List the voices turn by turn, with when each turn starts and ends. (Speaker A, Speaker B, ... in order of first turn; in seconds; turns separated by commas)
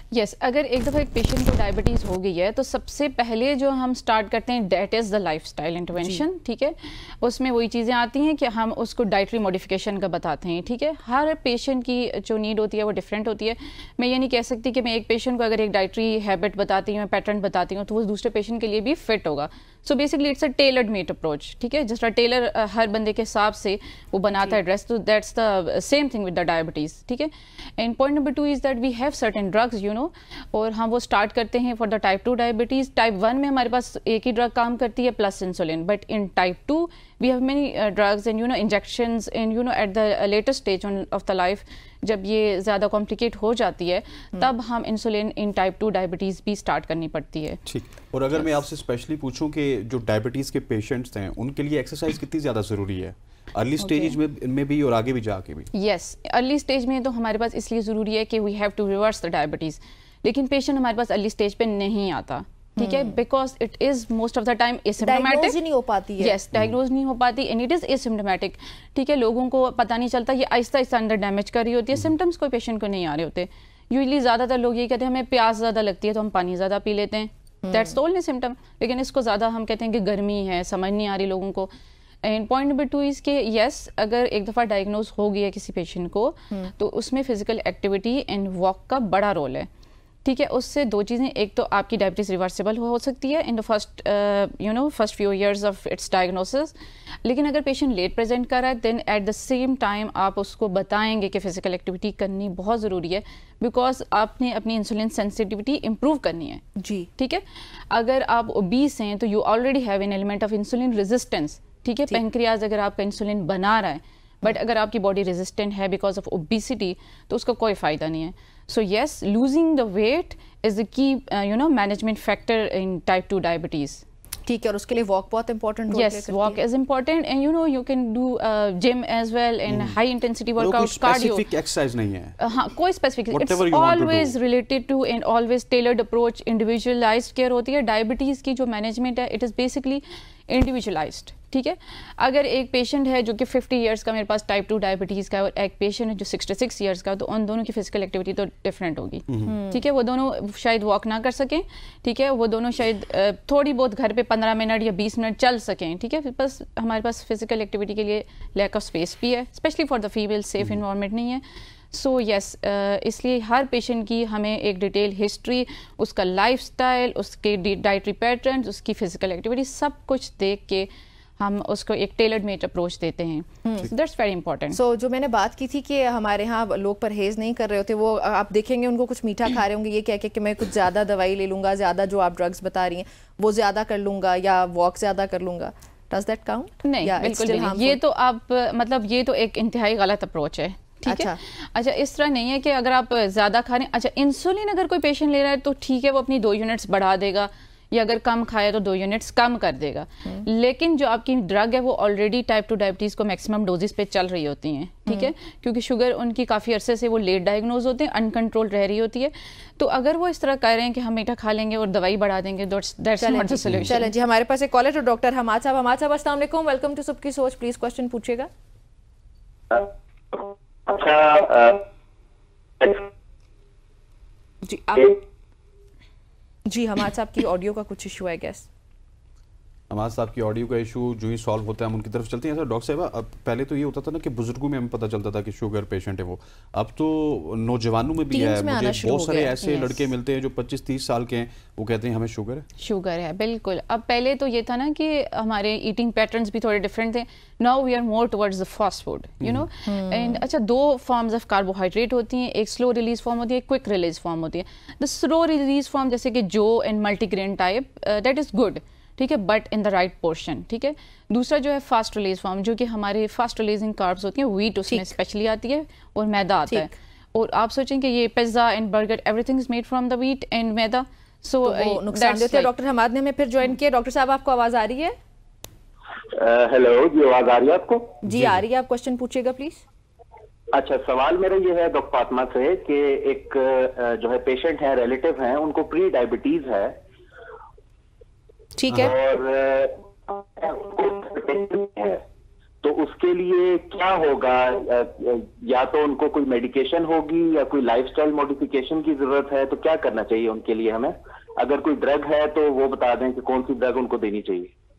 Speaker A: 0.1-47.6, Speaker B: 6.0-6.2, Speaker C: 47.6-55.7, Speaker A: 53.8-54.2, Speaker A: 55.7-65.6, Speaker B: 62.8-63.1, Speaker B: 65.0-66.4, Speaker A: 66.2-81.7, Speaker A: 82.2-89.7, Speaker A: 90.2-96.7, Speaker A: 97.2-106.6, Speaker B: 106.8-107.1, Speaker A: 107.2-124.0, Speaker B: 124.5-126.6, Speaker A: 125.9-131.4, Speaker C: 129.7-130.0, Speaker C: 130.6-132.4, Speaker A: 132.4-174.8, Speaker C: 133.3-134.3, Speaker B: 149.4-149.8, Speaker B: 174.7-188.0, Speaker A: 186.8-214.1, Speaker B: 191.1-191.4, Speaker B: 213.2-218.5, Speaker D: 219.7-221.8, Speaker D: 222.8-223.1, Speaker B: 224.6-225.2, Speaker B: 226.7-228.7, Speaker C: 229.9-242.6, Speaker B: 238.3-239.5, Speaker A: 239.6-240.0, Speaker A: 242.8-272.7, Speaker C: 249.4-249.7, Speaker B: 249.9-250.4, Speaker B: 271.6-275.1, Speaker D: 276.3-278.2, Speaker B: 278.2-279.8, Speaker C: 278.2-278.6, Speaker D: 280.7-286.9, Speaker B: 288.8-289.1, Speaker D: 288.9-292.2, Speaker D: 292.8-304.7